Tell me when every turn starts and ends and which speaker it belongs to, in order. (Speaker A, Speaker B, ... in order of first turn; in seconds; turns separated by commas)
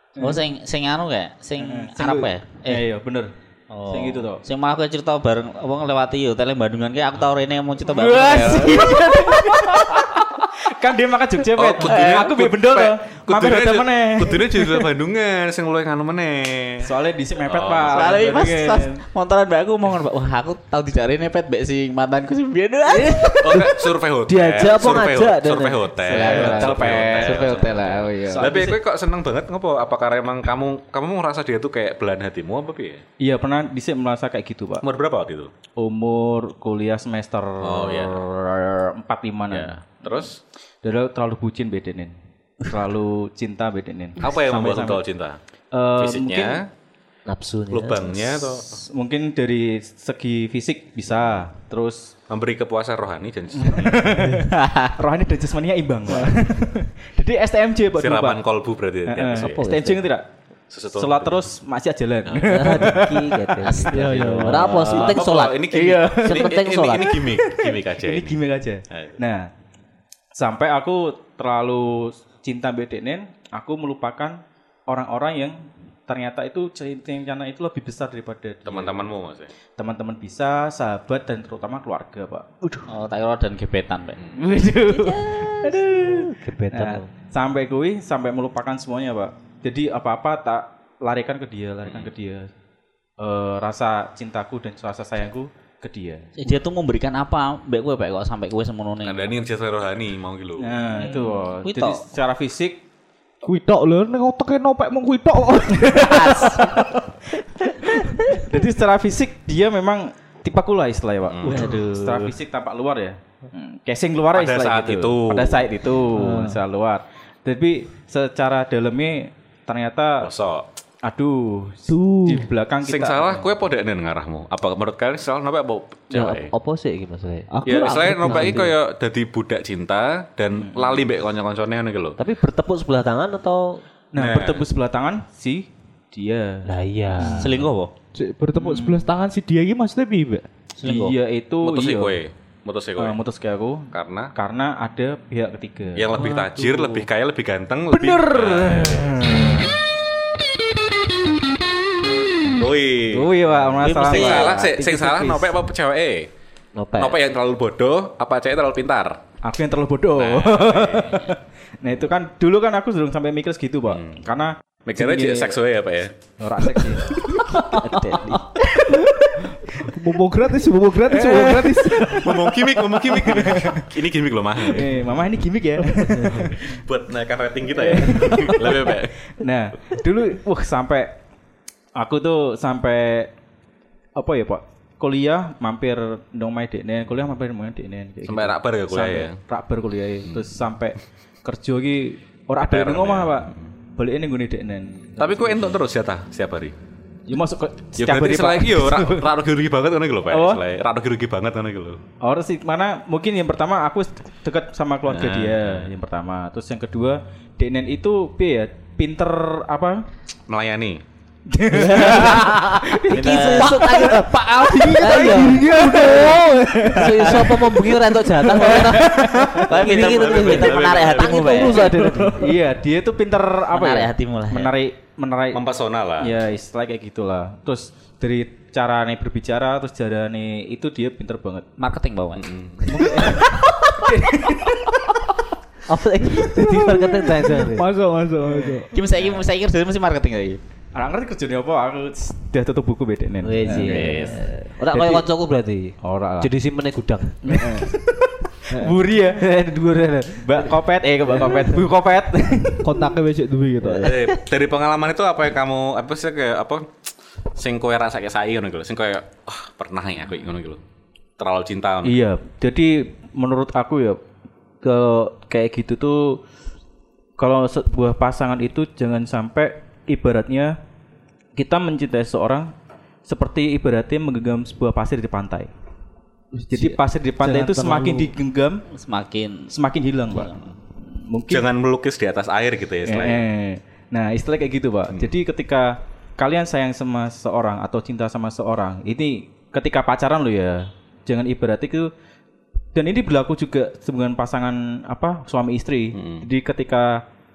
Speaker A: 0.2-0.4, Speaker B: 0.2-2.8, Speaker A: 1.6-3.3, Speaker B: 3.7-10.1, Speaker A: 3.9-4.4, Speaker A: 7.8-14.9, Speaker C: 11.5-16.9, Speaker B: 11.8-12.3, Speaker A: 16.8-19.0, Speaker C: 17.4-18.3, Speaker B: 17.9-23.6, Speaker D: 22.9-26.4, Speaker C: 23.4-33.0, Speaker B: 26.0-28.6, Speaker A: 26.2-27.7, Speaker A: 28.2-28.8, Speaker A: 33.2-34.8, Speaker C: 34.8-35.5, Speaker A: 35.8-40.2, Speaker C: 37.6-38.2, Speaker C: 39.5-40.4, Speaker A: 40.8-45.0, Speaker C: 44.2-45.4, Speaker A: 45.7-46.6, Speaker C: 46.0-46.7, Speaker D: 47.3-48.2, Speaker C: 47.7-48.8, Speaker A: 48.5-52.1, Speaker C: 52.3-54.3, Speaker A: 53.5-58.4, Speaker B: 54.5-54.9, Speaker C: 58.0-59.7, Speaker A: 59.1-60.3, Speaker D: 59.3-60.1, Speaker C: 60.7-61.5, Speaker A: 60.9-69.5, Speaker C: 62.3-62.8, Speaker D: 62.4-67.2, Speaker B: 63.6-64.4, Speaker E: 63.9-64.9, Speaker C: 64.6-69.2, Speaker A: 70.3-79.1, Speaker C: 78.7-79.5, Speaker A: 79.8-82.8, Speaker B: 82.9-84.2, Speaker A: 84.3-92.5, Speaker D: 84.9-87.1, Speaker C: 91.8-92.1, Speaker A: 93.2-96.3, Speaker B: 96.4-99.4, Speaker C: 99.0-100.8, Speaker A: 100.6-102.8, Speaker B: 101.0-102.0, Speaker E: 103.4-106.9, Speaker A: 105.8-107.0, Speaker B: 106.1-106.6, Speaker A: 107.8-120.3, Speaker C: 111.3-112.3, Speaker C: 114.3-115.9, Speaker E: 116.1-116.6, Speaker C: 120.2-120.7, Speaker A: 121.0-123.5, Speaker E: 121.9-122.5, Speaker C: 122.8-126.5, Speaker D: 126.1-127.6, Speaker E: 127.5-128.7, Speaker C: 127.7-132.2, Speaker D: 128.2-128.7, Speaker A: 130.6-131.1, Speaker D: 132.2-133.8, Speaker A: 134.1-137.6, Speaker C: 134.2-134.7, Speaker D: 136.7-137.6, Speaker B: 137.4-137.9, Speaker E: 138.2-140.5, Speaker A: 138.6-139.1, Speaker B: 140.8-141.1, Speaker A: 140.8-142.2, Speaker C: 141.6-143.2, Speaker A: 143.0-147.1, Speaker C: 143.9-144.3, Speaker C: 146.0-149.6, Speaker A: 147.9-149.8, Speaker C: 152.4-156.3, Speaker A: 153.1-155.5, Speaker D: 156.8-157.2, Speaker C: 156.9-159.2, Speaker A: 159.4-165.6, Speaker C: 160.2-161.3, Speaker C: 163.9-164.2, Speaker C: 164.8-166.2, Speaker A: 166.4-167.4, Speaker E: 167.4-172.4, Speaker D: 167.5-168.5, Speaker A: 168.8-169.0, Speaker A: 171.1-173.9, Speaker C: 172.1-175.2, Speaker A: 174.6-176.8, Speaker C: 176.2-179.3, Speaker A: 177.7-181.2, Speaker A: 182.0-183.3, Speaker A: 184.2-195.8, Speaker C: 188.2-189.4, Speaker C: 192.6-193.7, Speaker C: 195.2-196.8, Speaker A: 197.3-199.3, Speaker C: 198.0-202.0, Speaker A: 200.3-200.6, Speaker A: 202.2-210.1, Speaker C: 205.1-205.9, Speaker C: 210.5-211.0, Speaker A: 211.5-219.7, Speaker D: 211.7-214.3, Speaker B: 213.1-214.0, Speaker E: 213.6-217.4, Speaker D: 215.0-222.4, Speaker E: 219.2-219.7, Speaker B: 219.6-221.9, Speaker C: 219.8-221.7, Speaker E: 221.6-222.6, Speaker A: 221.8-225.6, Speaker B: 223.7-224.7, Speaker C: 225.5-226.4, Speaker A: 226.2-231.7, Speaker B: 231.8-232.5, Speaker C: 232.4-233.2, Speaker A: 232.9-235.1, Speaker E: 233.0-233.4, Speaker D: 235.9-237.9, Speaker E: 236.5-238.9, Speaker A: 238.5-239.4, Speaker B: 238.9-240.6, Speaker A: 240.9-245.3, Speaker D: 243.4-247.9, Speaker C: 243.8-244.3, Speaker A: 246.0-246.5, Speaker A: 247.4-253.0, Speaker D: 249.6-250.4, Speaker E: 252.8-254.2, Speaker C: 254.0-257.0, Speaker C: 257.5-260.8, Speaker C: 261.4-262.2, Speaker A: 262.0-264.2, Speaker A: 264.8-266.4, Speaker A: 267.4-270.7, Speaker A: 271.6-272.7, Speaker A: 273.3-275.7, Speaker E: 276.6-278.4, Speaker A: 276.7-278.8, Speaker B: 278.9-279.7, Speaker A: 279.7-281.7, Speaker B: 280.3-280.6, Speaker C: 281.5-283.4, Speaker A: 283.1-292.1, Speaker C: 285.1-285.4, Speaker A: 292.9-297.1, Speaker C: 296.1-296.5